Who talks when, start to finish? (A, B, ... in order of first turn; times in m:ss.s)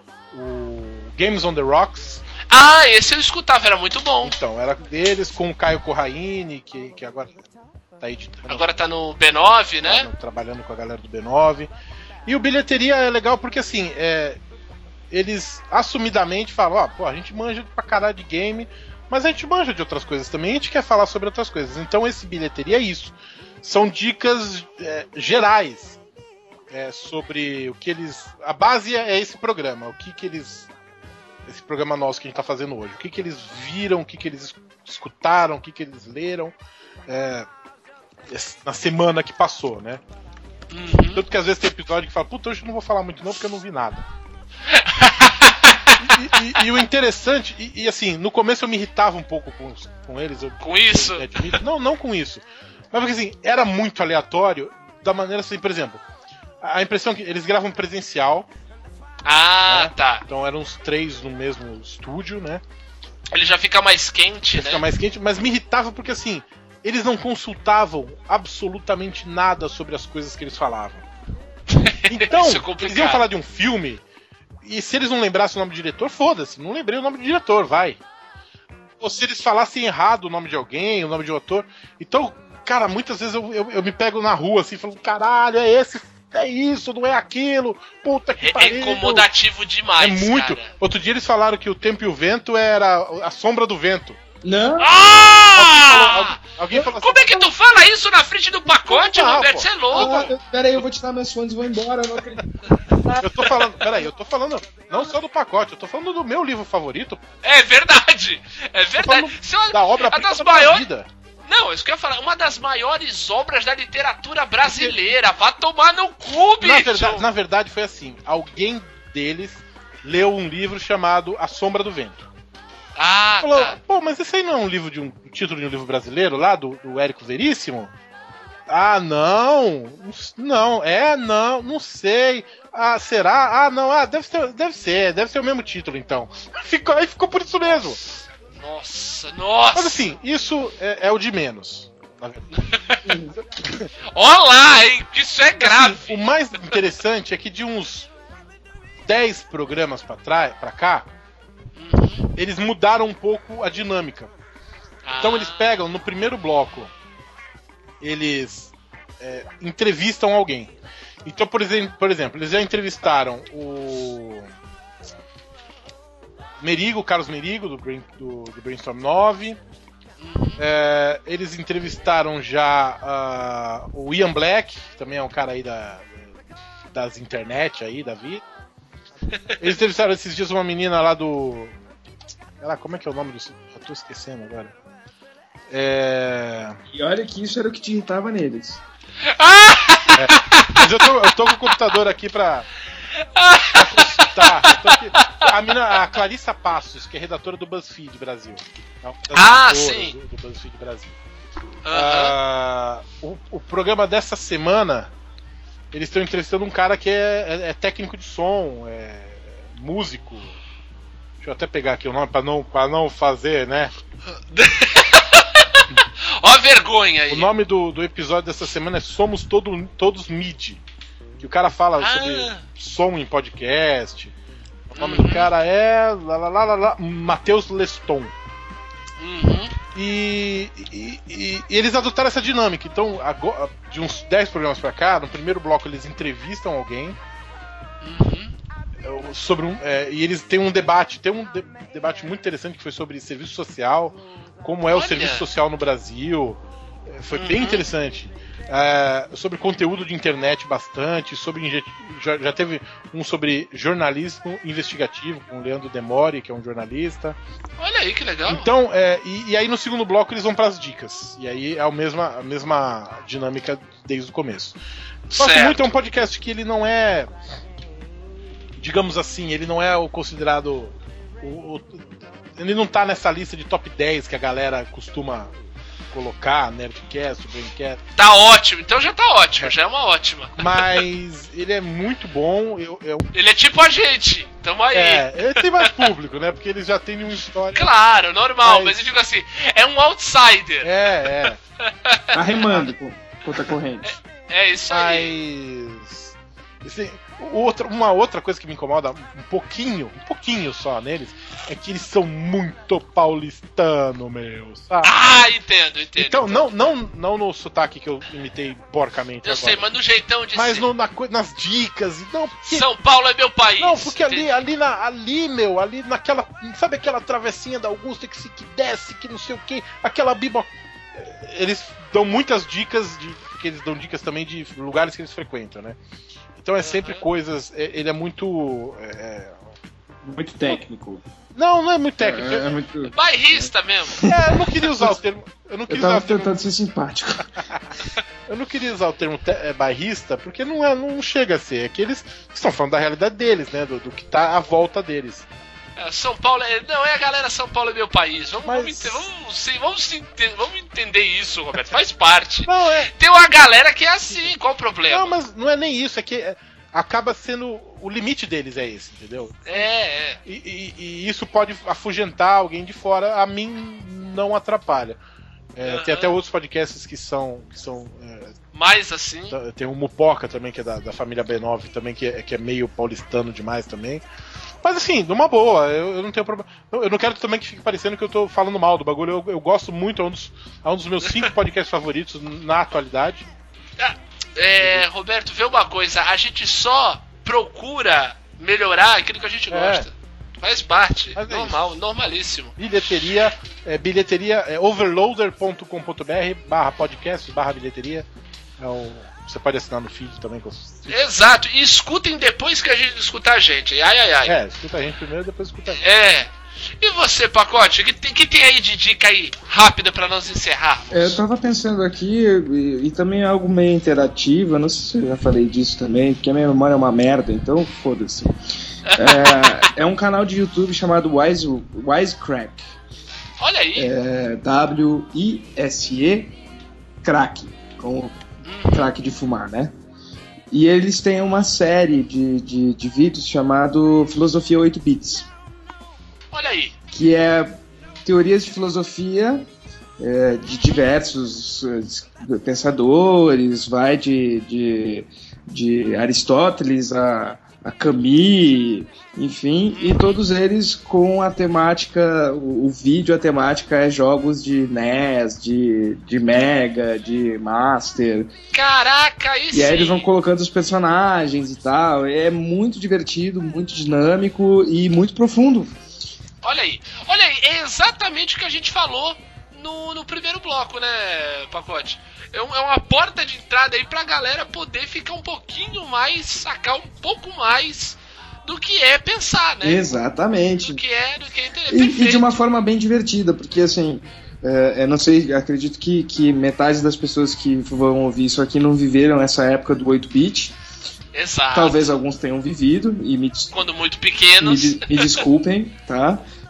0:00.3-0:02.2 A
0:02.5-0:04.3 B
0:04.2-0:07.4 A
0:08.0-0:08.7 A
0:08.5-0:10.1 B
0:09.8-0:11.7 A
0:12.2-0:14.4 A
0:15.1-0:26.0 A
0:26.7-0:30.7 A
0:31.5-0:36.5 A
0:37.1-0:37.5 A
0:38.3-0:40.0 A
0:40.7-0:41.2 B
0:41.1-0:44.0 A
0:44.7-0:45.9 B
0:46.0-0:56.0 A
0:50.6-0:51.6 B
0:56.6-0:58.5 A
0:59.2-1:00.2 B
0:59.7-1:02.6 A
1:03.3-1:04.8 B
1:04.5-1:11.0 A
1:11.7-1:13.2 B
1:12.1-1:14.0 A
1:14.6-1:18.0 A
1:19.0-1:29.2 A
1:28.4-1:30.7 B
1:30.0-1:34.2 A
1:34.4-1:34.9 C
1:34.8-1:40.1 B
1:35.5-1:37.5 A
1:38.9-1:40.3 A
1:39.9-1:42.4 C
1:43.0-1:43.4 C
1:43.2-1:47.2 A
1:47.4-1:50.9 B
1:49.0-1:51.1 A
1:51.5-1:57.2 B
1:54.6-1:55.0 A
1:56.6-2:02.3 A
2:03.0-2:03.8 B
2:03.4-2:07.9 A
2:08.7-2:18.0 A
2:18.6-2:20.0 B
2:19.7-2:23.9 A
2:22.6-2:23.1 B
2:24.1-2:26.7 B
2:25.6-2:28.1 A
2:29.0-2:31.1 A
2:31.8-2:32.3 B
2:32.4-2:34.3 A
2:35.0-2:35.8 B
2:35.2-2:36.9 A
2:38.0-2:40.7 A
2:41.2-2:44.4 A
2:46.6-2:49.6 A
2:50.2-2:50.6 B
2:50.6-2:56.1 A
2:56.9-2:58.4 A
2:59.6-3:01.7 A
3:02.6-3:04.7 A
3:05.7-3:06.8 A
3:06.9-3:08.8 C
3:09.2-3:10.8 B
3:10.1-3:12.7 A
3:13.2-3:15.5 B
3:13.7-3:21.1 A
3:19.3-3:20.1 B
3:21.8-3:22.3 B
3:21.9-3:25.1 A
3:25.9-3:30.5 A
3:31.4-3:33.9 A
3:34.5-3:37.5 B
3:37.3-3:40.8 A
3:41.4-3:44.3 A
3:42.0-3:42.6 B
3:44.9-3:48.3 A
3:45.0-3:45.5 B
3:49.2-3:49.8 B
3:49.9-3:57.2 A
3:58.0-3:58.6 B
3:59.0-4:17.4 A
4:04.9-4:05.4 B
4:07.3-4:07.8 B
4:17.8-4:18.7 B
4:18.5-4:24.8 A
4:25.3-4:26.0 B
4:25.4-4:27.3 A
4:28.8-4:35.5 A
4:36.1-4:38.0 A
4:38.2-4:40.8 B
4:40.6-4:43.3 A
4:43.3-4:46.1 B
4:44.9-4:47.9 A
4:47.7-4:52.9 B
4:48.6-4:49.0 A
4:50.8-4:51.6 A
4:52.3-4:54.1 C
4:54.0-4:55.3 B
4:54.9-4:56.3 A
4:56.8-5:05.4 A
5:05.0-5:06.9 B
5:06.2-5:09.8 A
5:09.4-5:10.8 B
5:10.5-5:12.9 A
5:12.6-5:14.6 B
5:13.8-5:26.0 A
5:26.6-5:29.6 A
5:26.8-5:27.2 B
5:30.2-5:31.2 C
5:31.6-5:32.8 A
5:32.2-5:35.2 C
5:33.1-5:34.2 B
5:34.2-5:36.5 A
5:35.9-5:37.5 C
5:38.5-5:45.5 A
5:46.0-5:55.3 B
5:48.6-5:49.2 A
5:52.7-5:53.1 A
5:55.1-5:59.8 A
5:59.7-6:00.4 B
6:00.4-6:05.2 A
6:05.7-6:08.5 A
6:05.8-6:06.4 B
6:08.7-6:09.6 B
6:09.5-6:14.2 A
6:14.8-6:23.4 A
6:24.0-6:32.8 B
6:24.8-6:25.0 A
6:29.7-6:30.1 A
6:31.3-6:31.9 A
6:32.8-6:38.2 A
6:38.8-6:41.2 A
6:41.1-6:44.6 B
6:44.4-6:46.0 A
6:46.0-6:51.4 B
6:51.1-6:58.6 C
6:59.1-6:59.9 B
6:59.1-7:02.9 C
7:03.6-7:04.1 B
7:04.0-7:06.5 C
7:07.2-7:08.4 C
7:08.6-7:09.1 B
7:08.9-7:09.9 C
7:10.7-7:15.5 C
7:16.5-7:17.0 B
7:17.1-7:19.7 C
7:20.2-7:38.5 C
7:29.9-7:30.4 B
7:38.7-7:40.3 B
7:39.7-7:45.9 C
7:46.6-8:00.1 B
7:59.8-8:01.0 C
8:00.8-8:02.6 B
8:01.9-8:10.8 C
8:11.3-8:12.0 B
8:11.7-8:13.7 C
8:13.7-8:15.4 B
8:14.6-8:16.4 C